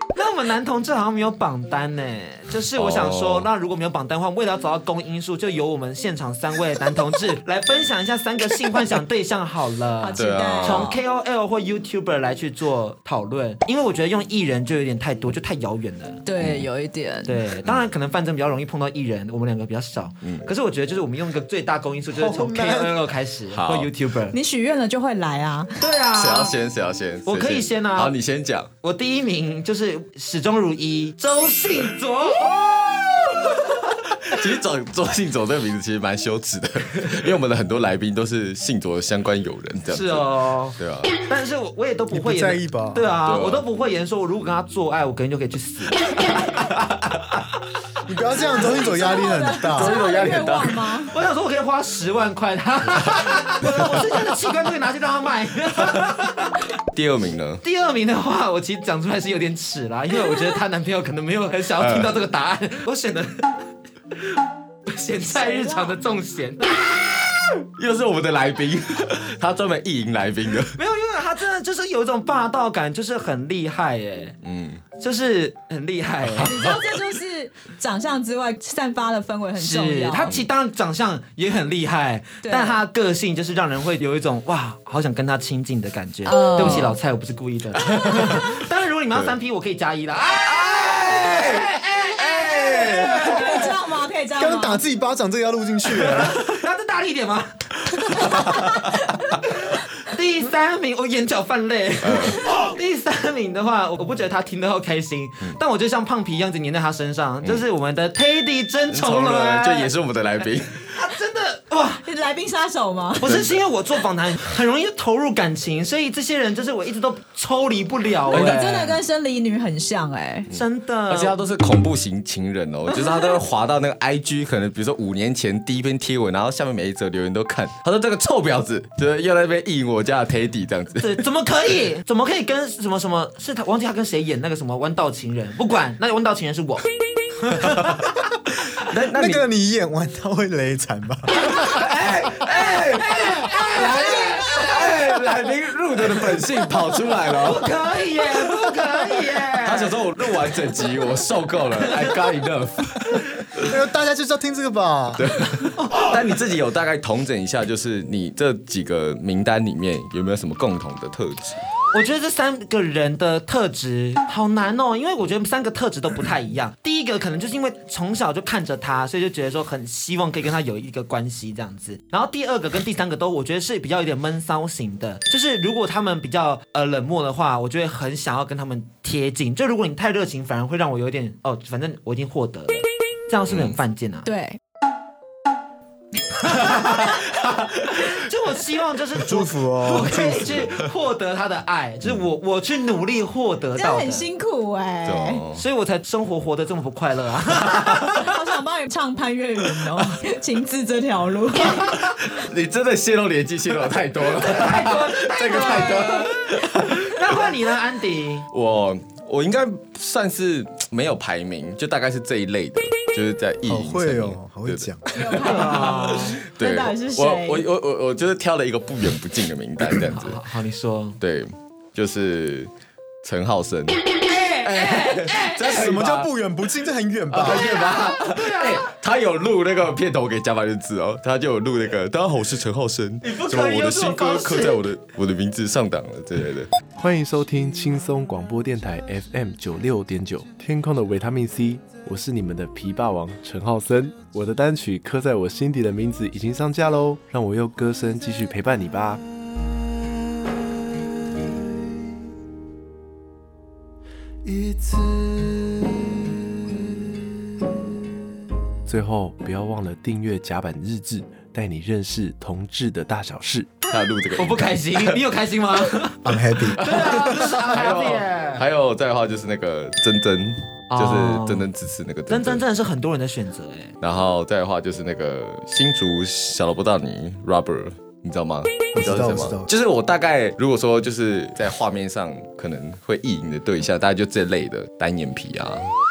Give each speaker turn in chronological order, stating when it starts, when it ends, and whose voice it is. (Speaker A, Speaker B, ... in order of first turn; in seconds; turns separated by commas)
Speaker A: 0.1-16.2, Speaker B: 2.8-3.5, Speaker C: 10.0-10.9, Speaker B: 10.2-11.0, Speaker C: 16.2-17.4, Speaker B: 16.4-16.7, Speaker A: 17.3-24.4, Speaker B: 20.2-20.5, Speaker D: 22.1-22.9, Speaker B: 23.5-23.9, Speaker C: 24.3-25.7, Speaker A: 25.8-26.6, Speaker B: 26.2-28.7, Speaker A: 27.2-28.1, Speaker A: 28.8-32.6, Speaker B: 32.7-41.2, Speaker A: 39.9-46.0, Speaker D: 42.1-43.1, Speaker B: 43.2-43.6, Speaker D: 48.1-50.0, Speaker C: 48.2-51.2, Speaker B: 49.7-50.9, Speaker A: 51.1-56.5, Speaker B: 56.9-57.6, Speaker A: 57.6-63.4, Speaker B: 61.8-62.1, Speaker A: 64.9-66.9, Speaker C: 65.3-66.0, Speaker B: 67.4-70.7, Speaker A: 70.8-74.4, Speaker B: 74.4-74.8, Speaker A: 75.0-76.5, Speaker B: 76.4-76.8, Speaker C: 76.4-80.3, Speaker A: 79.5-93.7, Speaker C: 82.4-82.8, Speaker C: 86.2-86.9, Speaker B: 86.6-86.9, Speaker B: 90.5-91.6, Speaker B: 92.2-93.5, Speaker C: 93.1-94.8, Speaker D: 94.4-96.4, Speaker A: 95.9-98.5, Speaker B: 98.5-98.8, Speaker A: 99.7-109.9, Speaker B: 102.0-102.4, Speaker B: 108.9-110.9, Speaker A: 110.9-112.0, Speaker C: 112.0-113.3, Speaker A: 113.2-119.0, Speaker B: 113.2-113.5, Speaker B: 118.3-118.7, Speaker C: 118.3-120.5, Speaker B: 120.5-131.1, Speaker A: 120.5-121.4, Speaker C: 122.9-123.3, Speaker A: 131.0-136.8, Speaker A: 137.4-138.0, Speaker B: 138.9-139.4, Speaker D: 139.1-141.5, Speaker B: 141.5-147.7, Speaker A: 142.0-144.7, Speaker A: 147.4-150.0, Speaker B: 149.6-153.7, Speaker D: 153.6-155.3, Speaker B: 155.2-161.6, Speaker A: 155.8-156.2, Speaker A: 161.9-184.3, Speaker B: 183.5-183.8, Speaker C: 184.3-184.6, Speaker A: 186.6-187.2, Speaker B: 187.6-188.0, Speaker A: 188.1-194.3, Speaker D: 189.2-190.6, Speaker C: 193.8-195.4, Speaker B: 195.1-195.6, Speaker A: 195.6-198.2, Speaker C: 198.0-201.8, Speaker B: 201.8-207.4, Speaker A: 204.3-206.3, Speaker A: 207.1-208.5, Speaker B: 208.5-220.4, Speaker D: 213.7-215.3, Speaker C: 215.1-217.7, Speaker A: 215.4-216.4, Speaker A: 219.8-221.2, Speaker B: 221.2-222.7, Speaker B: 223.2-224.1, Speaker A: 224.2-225.8, Speaker B: 224.6-226.3, Speaker D: 225.7-227.7, Speaker B: 227.3-236.7, Speaker A: 227.4-228.9, Speaker A: 233.2-234.8, Speaker E: 236.9-249.2, Speaker E: 258.9-263.7, Speaker A: 263.8-266.3, Speaker B: 263.9-265.2, Speaker D: 266.2-267.5, Speaker B: 266.8-272.6, Speaker A: 266.8-268.6, Speaker A: 270.9-271.7, Speaker A: 272.3-273.9, Speaker B: 274.0-285.9, Speaker D: 278.9-279.7